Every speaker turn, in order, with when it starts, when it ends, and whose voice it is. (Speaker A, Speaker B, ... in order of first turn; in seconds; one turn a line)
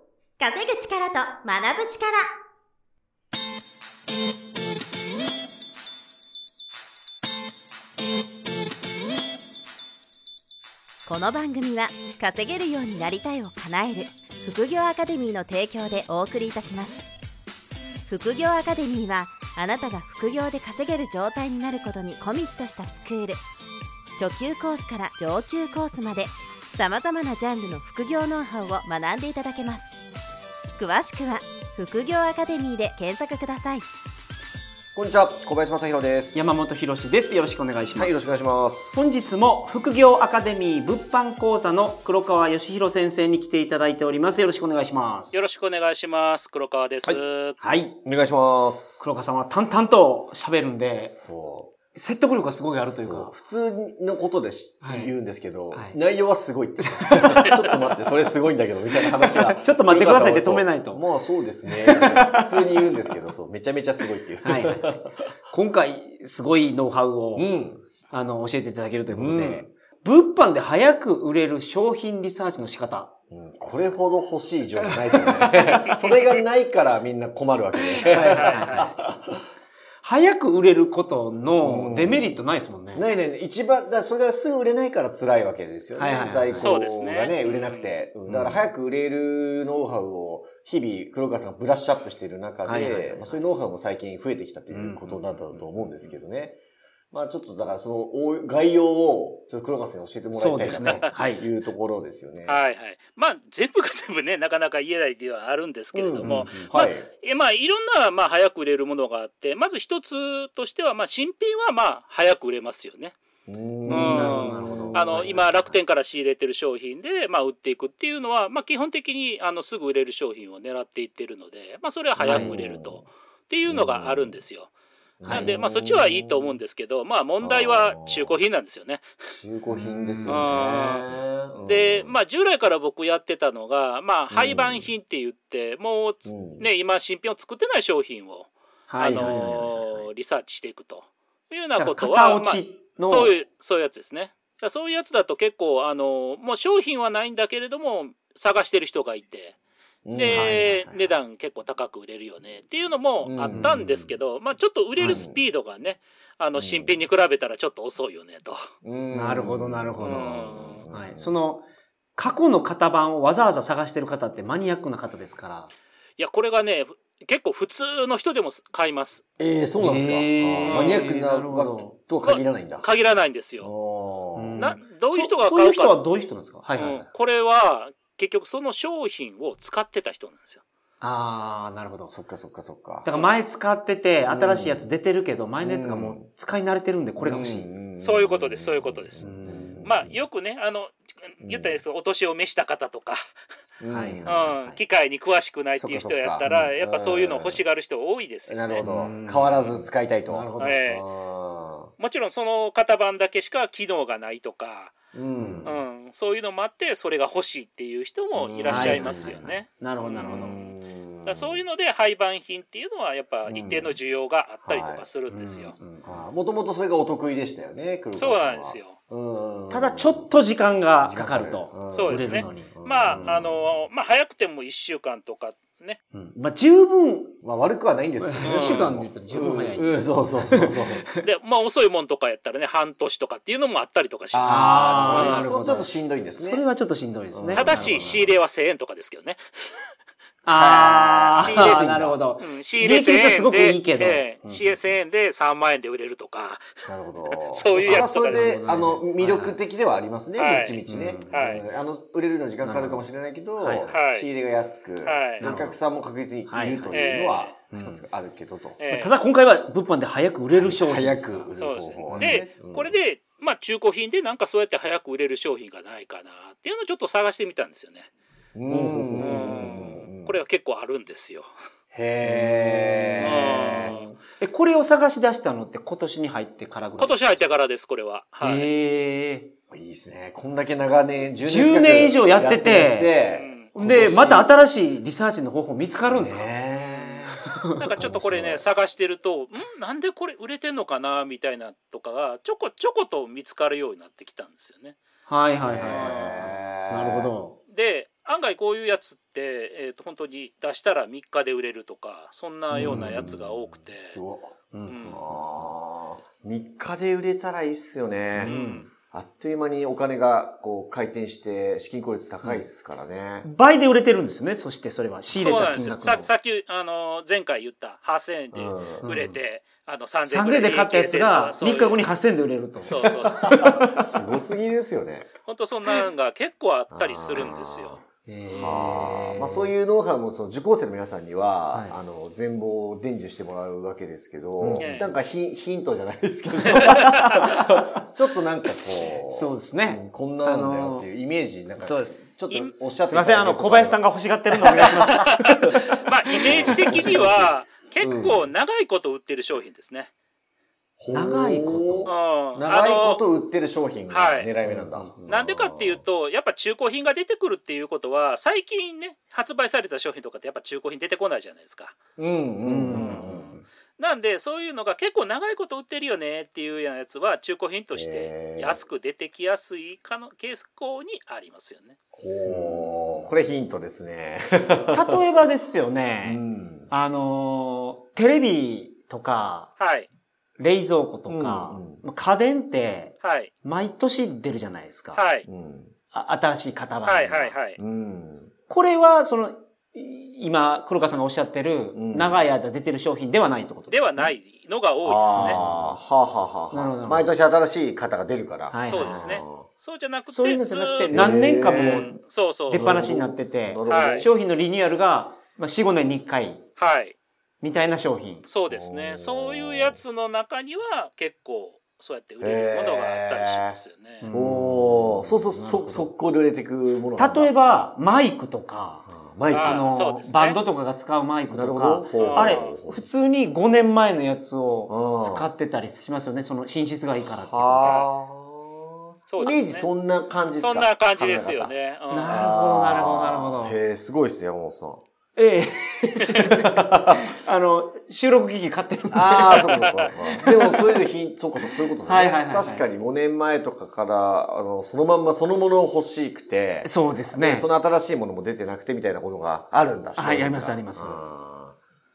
Speaker A: 0.4-2.3
Speaker A: 11.1-17.0
Speaker A: 18.1-23.4
Speaker A: 24.1-29.9
Speaker A: 30.8-33.8
Speaker B: 34.9-36.5
Speaker C: 36.3-38.2
Speaker B: 37.9-39.1
Speaker C: 38.9-45.5
Speaker D: 45.3-47.6
Speaker C: 47.6-48.0
Speaker B: 48.0-49.1
Speaker C: 49.0-51.2
Speaker B: 51.2-51.7
Speaker C: 51.9-53.3
Speaker B: 52.8-65.2
Speaker C: 54.8-55.1
Speaker C: 55.7-56.0
Speaker C: 56.8-57.7
Speaker C: 59.0-61.0
Speaker C: 61.7-63.1
Speaker C: 64.4-67.5
Speaker B: 67.3-67.8
Speaker C: 68.1-73.1
Speaker B: 69.1-69.7
Speaker B: 73.3-79.4
Speaker C: 75.1-76.1
Speaker C: 77.9-78.9
Speaker D: 78.2-78.9
Speaker C: 80.0-83.0
Speaker B: 81.6-82.4
Speaker B: 82.9-96.6
Speaker C: 86.0-86.7
Speaker D: 86.5-88.0
Speaker C: 88.3-88.7
Speaker C: 92.6-93.3
Speaker C: 94.7-96.2
Speaker B: 97.1-102.6
Speaker C: 100.3-101.4
Speaker D: 102.4-113.1
Speaker B: 105.9-107.1
Speaker C: 106.2-106.7
Speaker B: 113.5-115.2
Speaker C: 113.8-115.8
Speaker D: 113.9-124.7
Speaker B: 122.2-123.1
Speaker C: 122.2-122.7
Speaker B: 123.7-124.4
Speaker B: 125.2-126.6
Speaker C: 125.3-125.5
Speaker D: 125.3-129.1
Speaker B: 127.4-128.4
Speaker B: 129.3-132.2
Speaker C: 129.7-130.8
Speaker D: 130.3-131.0
Speaker D: 131.7-149.6
Speaker B: 134.3-134.9
Speaker B: 136.2-136.7
Speaker C: 138.9-140.0
Speaker B: 139.2-139.5
Speaker C: 141.8-143.3
Speaker B: 150.0-150.5
Speaker D: 150.1-158.6
Speaker C: 150.3-151.0
Speaker B: 153.2-154.1
Speaker C: 153.5-153.8
Speaker C: 155.0-155.3
Speaker B: 155.0-155.4
Speaker B: 156.6-157.0
Speaker B: 158.8-161.4
Speaker C: 159.1-160.2
Speaker D: 160.0-160.8
Speaker C: 160.9-161.7
Speaker C: 162.2-165.7
Speaker D: 166.2-169.2
Speaker B: 169.4-172.9
Speaker C: 169.8-172.0
Speaker D: 170.6-171.0
Speaker D: 172.2-173.7
Speaker B: 173.6-174.7
Speaker C: 174.3-177.1
Speaker D: 174.6-176.0
Speaker D: 176.7-180.6
Speaker C: 181.0-182.1
Speaker B: 182.1-183.1
Speaker C: 183.0-187.7
Speaker D: 183.1-183.4
Speaker B: 184.2-184.9
Speaker B: 185.6-186.3
Speaker B: 187.2-190.2
Speaker D: 188.0-189.2
Speaker C: 189.2-189.8
Speaker D: 189.8-193.2
Speaker B: 191.4-191.8
Speaker B: 193.8-194.8
Speaker C: 193.9-194.4
Speaker D: 194.2-198.9
Speaker B: 195.7-197.7
Speaker C: 196.4-196.7
Speaker B: 198.5-201.9
Speaker C: 198.8-199.7
Speaker C: 200.3-200.8
Speaker D: 200.6-201.1
Speaker D: 202.0-204.9
Speaker B: 205.1-205.8
Speaker C: 205.3-205.7
Speaker D: 205.6-210.7
Speaker B: 208.4-209.4
Speaker C: 208.6-210.6
Speaker B: 210.1-211.6
Speaker D: 211.2-215.8
Speaker B: 213.4-214.0
Speaker B: 214.6-215.0
Speaker C: 215.3-216.2
Speaker B: 216.0-220.3
Speaker D: 218.1-218.9
Speaker C: 219.7-223.4
Speaker B: 221.0-223.6
Speaker D: 221.9-226.0
Speaker C: 226.1-227.4
Speaker B: 227.4-231.1
Speaker C: 228.2-231.2
Speaker D: 228.4-228.9
Speaker D: 231.2-235.5
Speaker B: 234.3-236.7
Speaker C: 234.4-238.3
Speaker B: 237.3-238.1
Speaker D: 237.5-239.8
Speaker C: 240.4-244.7
Speaker B: 240.5-242.2
Speaker D: 241.3-246.7
Speaker B: 246.8-258.8
Speaker D: 247.5-248.6
Speaker C: 247.6-249.6
Speaker D: 250.3-251.6
Speaker C: 250.8-251.5
Speaker C: 252.6-253.1
Speaker C: 253.6-253.9
Speaker D: 253.9-254.3
Speaker D: 255.0-255.5
Speaker C: 255.4-255.8
Speaker C: 256.4-257.1
Speaker D: 256.9-257.5
Speaker C: 257.7-258.0
Speaker D: 258.8-259.1
Speaker C: 258.9-261.5
Speaker B: 260.5-262.9
Speaker D: 261.6-268.1
Speaker C: 262.1-262.4
Speaker B: 268.5-270.4
Speaker C: 268.7-269.8
Speaker D: 269.2-271.5
Speaker B: 271.9-274.1
Speaker C: 272.2-277.4
Speaker D: 273.2-274.1
Speaker D: 277.0-278.7
Speaker C: 278.4-279.5
Speaker B: 279.7-284.5
Speaker C: 281.4-283.1
Speaker D: 283.3-283.8
Speaker C: 283.7-287.8
Speaker B: 286.1-287.4
Speaker D: 287.8-295.0
Speaker B: 288.0-288.6
Speaker C: 295.3-297.6
Speaker B: 295.6-297.3
Speaker D: 295.9-296.4
Speaker D: 297.7-304.2
Speaker C: 302.7-303.4
Speaker B: 302.7-303.4
Speaker B: 303.9-308.6
Speaker C: 304.7-305.7
Speaker D: 304.9-305.2
Speaker C: 308.4-308.9
Speaker D: 308.4-308.9
Speaker B: 309.1-313.5
Speaker C: 313.4-316.3
Speaker D: 315.3-322.1
Speaker B: 318.5-319.1
Speaker C: 319.0-319.4
Speaker C: 320.3-324.2
Speaker D: 322.8-323.6
Speaker B: 323.5-325.3
Speaker D: 325.4-328.0
Speaker B: 326.9-345.5
Speaker C: 328.2-329.7
Speaker C: 331.7-331.9
Speaker C: 334.6-335.1
Speaker D: 334.8-335.0
Speaker C: 336.6-338.0
Speaker C: 339.0-341.1
Speaker C: 341.8-342.2
Speaker C: 343.1-347.4
Speaker D: 344.7-350.1
Speaker B: 346.4-348.5
Speaker B: 351.0-356.0
Speaker C: 351.1-352.1
Speaker D: 352.1-353.2
Speaker D: 354.1-354.5
Speaker C: 354.6-355.2
Speaker D: 355.3-361.9
Speaker B: 362.2-363.6
Speaker C: 362.6-363.6
Speaker D: 362.9-372.0
Speaker B: 367.9-368.8
Speaker B: 372.2-375.2
Speaker C: 372.4-373.2
Speaker C: 374.9-379.7
Speaker B: 376.2-376.9
Speaker D: 379.8-380.1
Speaker C: 380.6-385.2
Speaker B: 381.3-382.0
Speaker D: 383.2-383.5
Speaker D: 385.1-385.4
Speaker B: 385.4-385.9
Speaker C: 386.1-387.6
Speaker D: 387.1-387.8
Speaker B: 387.8-388.5
Speaker C: 388.7-394.3
Speaker B: 391.9-392.5
Speaker D: 393.9-395.6
Speaker B: 395.0-399.7
Speaker C: 395.3-396.0
Speaker C: 396.7-397.3
Speaker C: 398.7-399.4
Speaker D: 398.9-402.9
Speaker C: 400.3-406.6
Speaker B: 401.1-402.1
Speaker B: 402.7-404.3
Speaker D: 403.9-404.3
Speaker D: 406.8-407.2
Speaker C: 407.6-408.4
Speaker D: 408.4-414.3
Speaker B: 408.7-410.0
Speaker B: 412.4-417.5
Speaker C: 414.2-416.1
Speaker C: 417.1-428.0
Speaker B: 419.1-419.9
Speaker D: 419.5-420.6
Speaker B: 421.5-423.1
Speaker D: 422.2-422.7
Speaker B: 424.9-425.5
Speaker B: 427.2-435.0
Speaker D: 427.8-428.1
Speaker D: 429.3-429.9
Speaker D: 430.6-432.3
Speaker C: 432.1-433.8
Speaker C: 435.4-440.8
Speaker B: 436.4-437.3
Speaker B: 439.1-451.8
Speaker C: 442.0-442.9
Speaker C: 446.8-447.7
Speaker C: 450.1-451.2